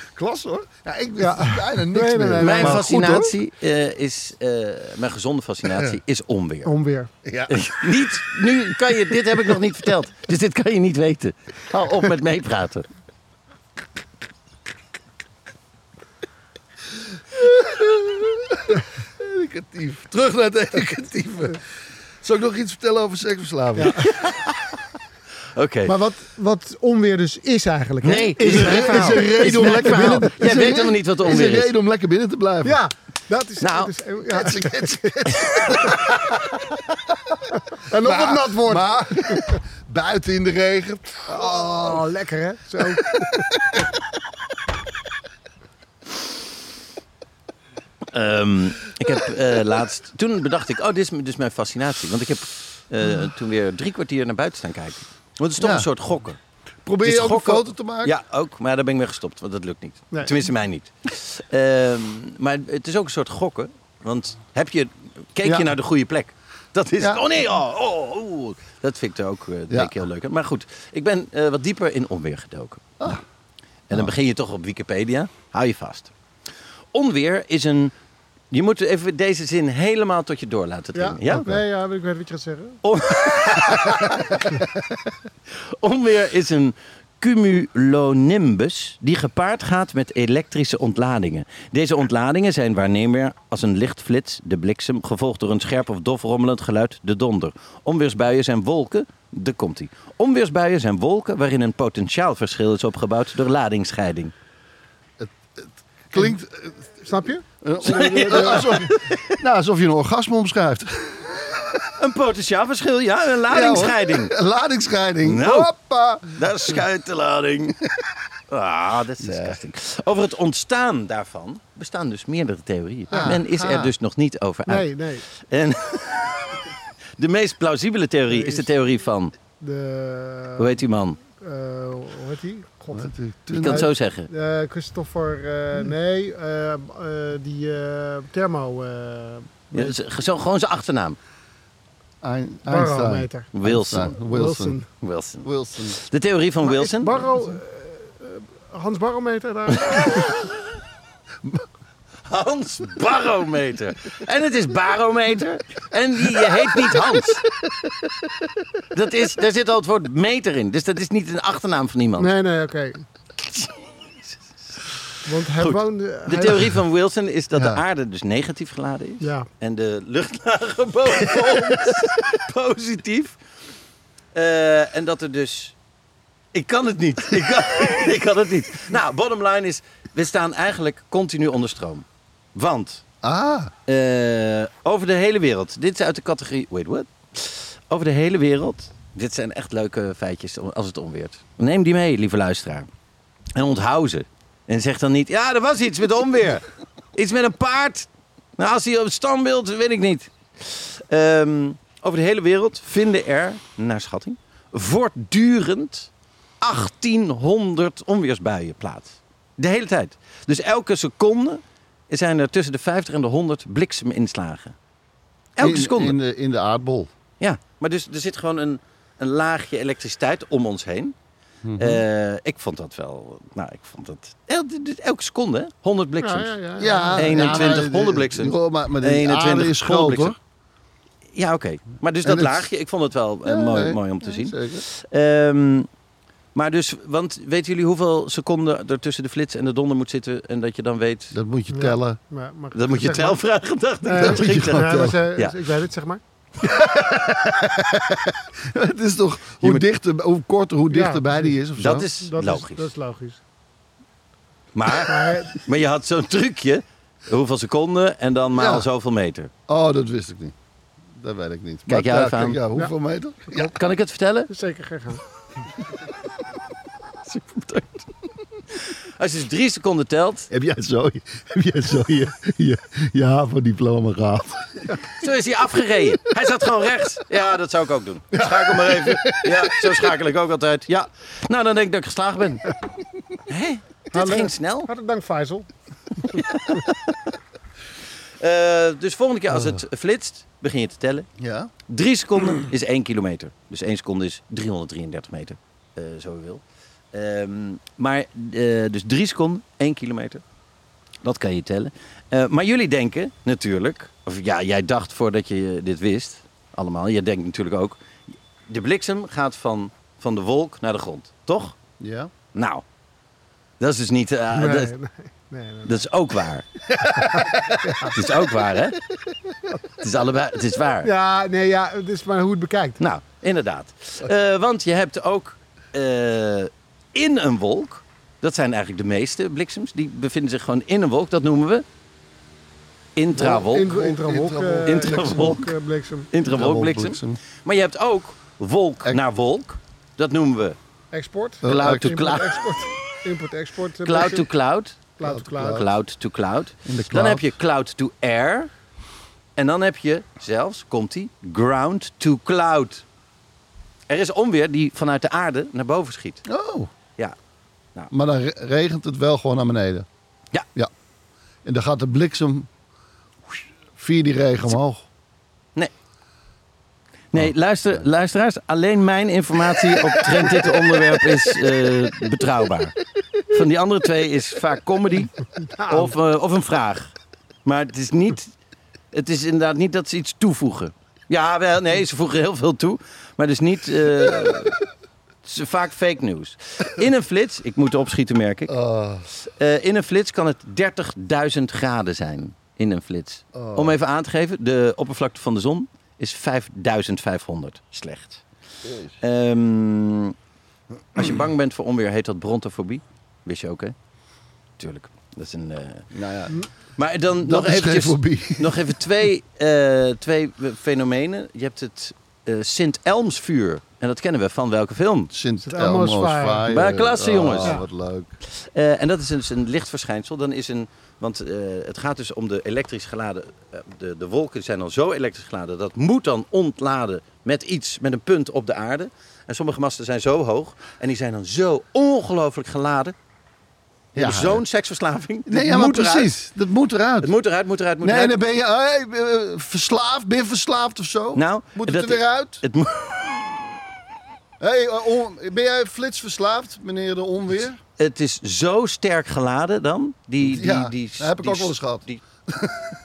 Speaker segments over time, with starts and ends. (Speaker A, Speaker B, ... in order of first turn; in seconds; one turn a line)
Speaker A: 0.1-3.3
Speaker B: 1.2-3.3
Speaker C: 2.4-6.7
Speaker B: 6.7-7.1
Speaker A: 7.2-7.6
Speaker C: 7.5-12.9
Speaker A: 17.4-21.6
Speaker A: 22.2-24.1
Speaker B: 23.8-24.1
Speaker C: 24.0-24.8
Speaker C: 25.6-25.9
Speaker B: 25.9-30.3
Speaker C: 28.0-31.7
Speaker A: 28.4-32.8
Speaker B: 32.6-36.0
Speaker C: 33.6-33.9
Speaker A: 34.3-35.9
Speaker C: 35.5-35.8
Speaker B: 37.7-39.6
Speaker A: 38.0-42.0
Speaker B: 41.3-43.5
Speaker A: 42.8-43.8
Speaker C: 48.1-56.4
Speaker A: 55.6-55.9
Speaker A: 56.9-58.1
Speaker C: 57.0-73.2
Speaker A: 65.4-65.7
Speaker A: 69.7-70.0
Speaker C: 73.9-76.1
Speaker C: 76.9-77.9
Speaker C: 78.5-81.6
Speaker B: 80.9-82.8
Speaker C: 82.8-84.4
Speaker C: 85.5-104.3
Speaker A: 105.2-106.9
Speaker B: 107.0-108.8
Speaker A: 107.6-111.8
Speaker C: 107.8-109.2
Speaker C: 112.0-114.3
Speaker A: 113.5-116.4
Speaker C: 115.2-115.7
Speaker C: 116.3-117.8
Speaker C: 118.5-126.6
Speaker A: 119.2-119.6
Speaker A: 123.1-123.9
Speaker B: 124.7-125.3
Speaker C: 127.2-129.3
Speaker B: 128.3-128.7
Speaker B: 129.6-130.8
Speaker C: 130.6-131.2
Speaker B: 131.3-133.1
Speaker A: 132.9-133.9
Speaker C: 133.5-134.3
Speaker B: 133.7-139.9
Speaker C: 139.7-141.2
Speaker A: 142.2-144.8
Speaker B: 142.7-143.5
Speaker C: 143.5-144.2
Speaker B: 144.2-144.9
Speaker C: 145.0-147.2
Speaker A: 145.4-146.0
Speaker B: 146.6-150.3
Speaker C: 149.8-150.6
Speaker C: 152.3-157.4
Speaker A: 156.4-157.9
Speaker C: 158.9-162.3
Speaker B: 162.2-163.0
Speaker C: 163.4-164.8
Speaker B: 165.3-166.6
Speaker C: 165.6-173.4
Speaker A: 167.5-167.8
Speaker B: 169.2-169.5
Speaker C: 174.3-175.8
Speaker C: 176.5-183.0
Speaker A: 183.2-183.7
Speaker C: 183.9-192.9
Speaker C: 193.6-206.1
Speaker C: 206.6-214.8
Speaker C: 215.6-216.2
Speaker A: 215.6-217.1
Speaker C: 217.4-221.1
Speaker A: 221.6-222.0
Speaker C: 221.8-226.6
Speaker B: 226.2-227.8
Speaker A: 226.8-230.4
Speaker C: 227.2-230.3
Speaker C: 231.3-235.9
Speaker A: 232.2-232.7
Speaker A: 233.4-234.8
Speaker C: 236.6-241.4
Speaker A: 241.3-242.2
Speaker B: 241.7-243.4
Speaker C: 242.7-245.6
Speaker B: 244.1-246.2
Speaker A: 244.2-245.2
Speaker A: 246.6-252.1
Speaker B: 250.9-253.4
Speaker C: 251.8-252.8
Speaker C: 254.7-259.5
Speaker B: 255.1-255.6
Speaker A: 258.6-258.9
Speaker A: 259.7-260.6
Speaker A: 261.1-263.8
Speaker C: 261.9-262.6
Speaker C: 263.6-264.5
Speaker B: 264.5-265.2
Speaker C: 267.2-268.1
Speaker C: 268.7-270.5
Speaker A: 270.5-274.9
Speaker C: 275.2-282.7
Speaker A: 278.3-280.1
Speaker C: 283.5-284.9
Speaker B: 284.1-285.7
Speaker C: 286.3-286.9
Speaker C: 288.4-291.3
Speaker A: 291.4-291.7
Speaker C: 291.9-296.6
Speaker C: 297.1-300.4
Speaker C: 301.2-308.0
Speaker C: 308.7-311.8
Speaker A: 312.0-312.3
Speaker C: 312.5-312.8
Speaker C: 313.8-314.9
Speaker B: 314.5-316.1
Speaker C: 315.9-316.7
Speaker B: 317.1-318.2
Speaker C: 317.5-319.0
Speaker C: 320.0-321.1
Speaker B: 321.0-323.0
Speaker C: 323.0-331.9
Speaker C: 333.2-333.9
Speaker A: 333.4-335.7
Speaker B: 333.4-336.3
Speaker C: 334.9-335.6
Speaker C: 336.3-340.8
Speaker A: 336.4-337.4
Speaker B: 341.1-344.5
Speaker A: 341.6-342.4
Speaker C: 341.6-342.6
Speaker C: 344.0-345.0
Speaker B: 345.2-345.8
Speaker A: 345.2-345.9
Speaker C: 345.6-348.7
Speaker A: 346.9-347.6
Speaker C: 349.6-353.0
Speaker C: 354.1-356.4
Speaker A: 356.5-356.9
Speaker A: 358.1-360.1
Speaker A: 361.6-362.7
Speaker A: 363.5-365.1
Speaker C: 367.3-373.0
Speaker A: 369.9-372.3
Speaker C: 373.5-375.4
Speaker B: 375.6-376.1
Speaker C: 375.9-377.1
Speaker C: 377.6-378.5
Speaker C: 379.1-384.8
Speaker C: 385.4-388.7
Speaker A: 388.7-389.3
Speaker C: 389.4-398.5
Speaker A: 393.5-394.0
Speaker A: 398.8-399.1
Speaker C: 399.2-400.4
Speaker C: 401.2-403.9
Speaker C: 404.8-406.1
Speaker A: 406.1-406.6
Speaker C: 407.0-415.3
Speaker A: 407.4-408.9
Speaker A: 415.3-418.3
Speaker B: 415.6-416.6
Speaker C: 416.7-417.8
Speaker C: 418.5-433.1
Speaker A: 434.1-434.6
Speaker C: 434.1-436.3
Speaker A: 435.5-437.3
Speaker C: 437.2-438.4
Speaker A: 438.0-442.6
Speaker C: 441.4-443.6
Speaker A: 444.6-447.8
Speaker C: 448.0-452.2
Speaker A: 450.4-452.9